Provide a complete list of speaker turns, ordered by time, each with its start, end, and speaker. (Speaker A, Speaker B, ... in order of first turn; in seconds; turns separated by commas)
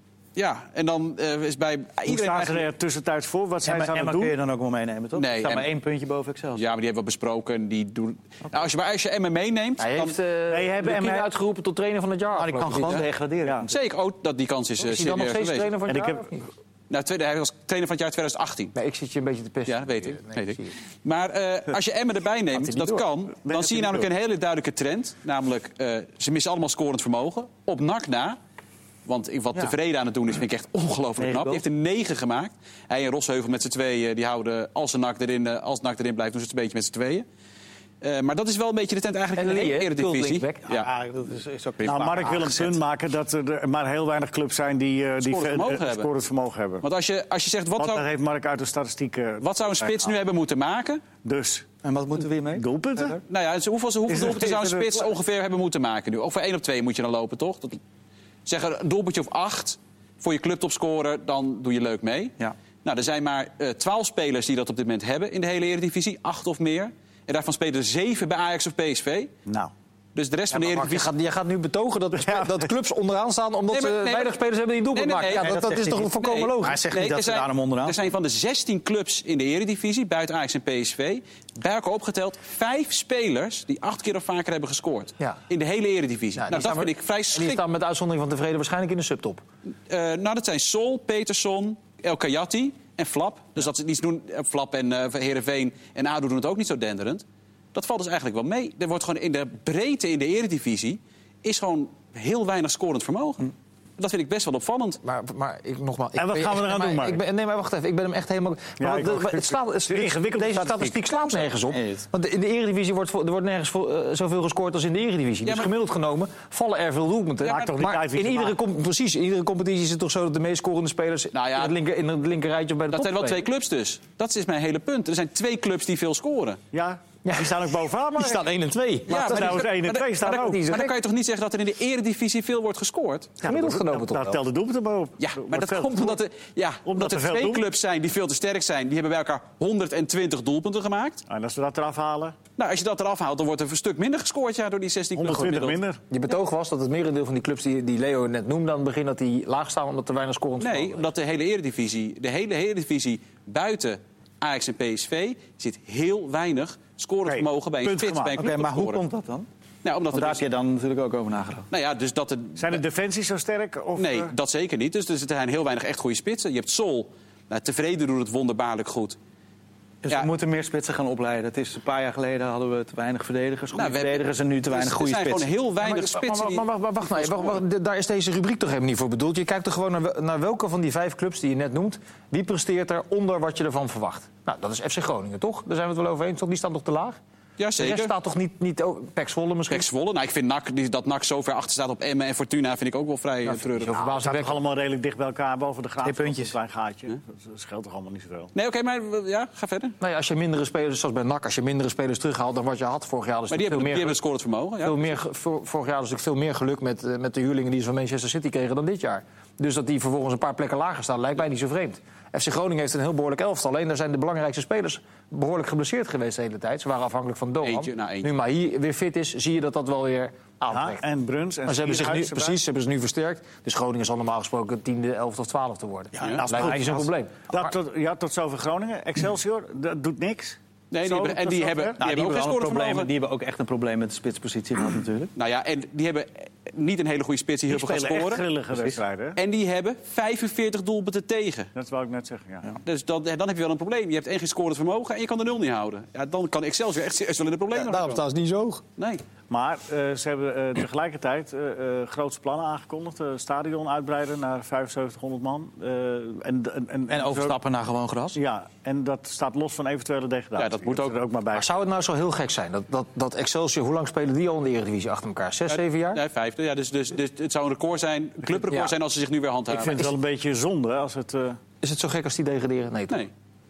Speaker A: 0.4-2.7, Speaker B: 2.1-4.3, Speaker C: 3.6-6.6, Speaker A: 5.2-5.7, Speaker A: 6.6-10.2, Speaker D: 9.8-13.1, Speaker B: 10.5-11.3, Speaker C: 12.4-13.8, Speaker A: 13.7-15.7, Speaker D: 14.8-16.5, Speaker B: 15.9-16.3, Speaker A: 16.9-18.8, Speaker D: 18.8-20.7, Speaker A: 19.7-28.4, Speaker D: 22.6-23.1, Speaker B: 23.4-24.1, Speaker A: 29.1-37.3, Speaker C: 31.2-31.6, Speaker A: 38.0-40.9, Speaker D: 39.4-40.7, Speaker C: 40.7-42.8, Speaker B: 41.9-46.9, Speaker A: 45.2-46.1, Speaker A: 46.8-48.0, Speaker B: 47.8-50.1, Speaker A: 49.4-51.0, Speaker B: 51.2-51.7, Speaker C: 51.8-53.2, Speaker B: 52.5-53.2, Speaker A: 53.3-57.8, Speaker B: 54.1-55.1, Speaker A: 58.5-69.3, Speaker B: 69.5-69.7, Speaker A: 70.2-71.1, Speaker D: 70.5-76.9, Speaker A: 73.7-74.3, Speaker A: 74.9-75.6, Speaker C: 75.4-78.0, Speaker A: 76.2-87.6, Speaker D: 86.4-89.4, Speaker A: 89.9-105.0, Speaker D: 105.0-123.4, Speaker B: 106.2-107.2, Speaker B: 108.8-111.1, Speaker C: 111.7-112.0, Speaker A: 117.4-117.7, Speaker B: 117.5-118.6, Speaker A: 121.3-121.7, Speaker A: 122.9-126.6, Speaker B: 126.7-128.4, Speaker D: 127.2-129.7, Speaker B: 129.1-130.6, Speaker A: 129.1-133.4, Speaker D: 130.2-131.0, Speaker D: 133.4-134.4, Speaker B: 133.4-136.2, Speaker A: 135.2-141.2, Speaker B: 136.8-137.7, Speaker B: 141.3-142.3, Speaker A: 142.6-145.8, Speaker B: 145.2-146.0, Speaker D: 146.1-151.1, Speaker A: 150.6-159.0, Speaker B: 157.3-158.4, Speaker C: 158.4-159.5, Speaker A: 159.8-160.4, Speaker C: 160.1-161.7, Speaker A: 161.7-162.8, Speaker B: 162.6-164.3, Speaker A: 164.0-169.2, Speaker C: 170.0-175.5, Speaker A: 173.7-176.7, Speaker D: 175.8-187.2, Speaker A: 177.2-177.6, Speaker A: 187.6-188.1, Speaker D: 187.8-189.9, Speaker A: 189.7-194.1, Speaker D: 193.4-194.5, Speaker B: 194.1-198.5, Speaker C: 196.0-196.6, Speaker A: 198.5-199.9, Speaker D: 200.0-204.2, Speaker A: 203.5-205.1, Speaker D: 204.8-221.0, Speaker A: 217.6-218.3, Speaker B: 220.7-222.6, Speaker D: 221.7-227.7, Speaker C: 226.2-227.0, Speaker B: 226.2-232.0, Speaker A: 230.9-233.1, Speaker C: 232.0-235.3, Speaker A: 235.3-238.4, Speaker B: 237.7-239.4, Speaker A: 239.4-241.7, Speaker B: 241.8-242.7, Speaker A: 242.8-248.2, Speaker D: 247.7-248.8, Speaker A: 249.0-249.2, Speaker B: 249.5-257.6, Speaker C: 257.1-258.4, Speaker B: 258.4-261.7, Speaker A: 260.6-261.2, Speaker D: 261.5-266.2, Speaker A: 265.7-270.1, Speaker D: 268.5-268.9, Speaker B: 269.7-271.6, Speaker D: 271.8-273.2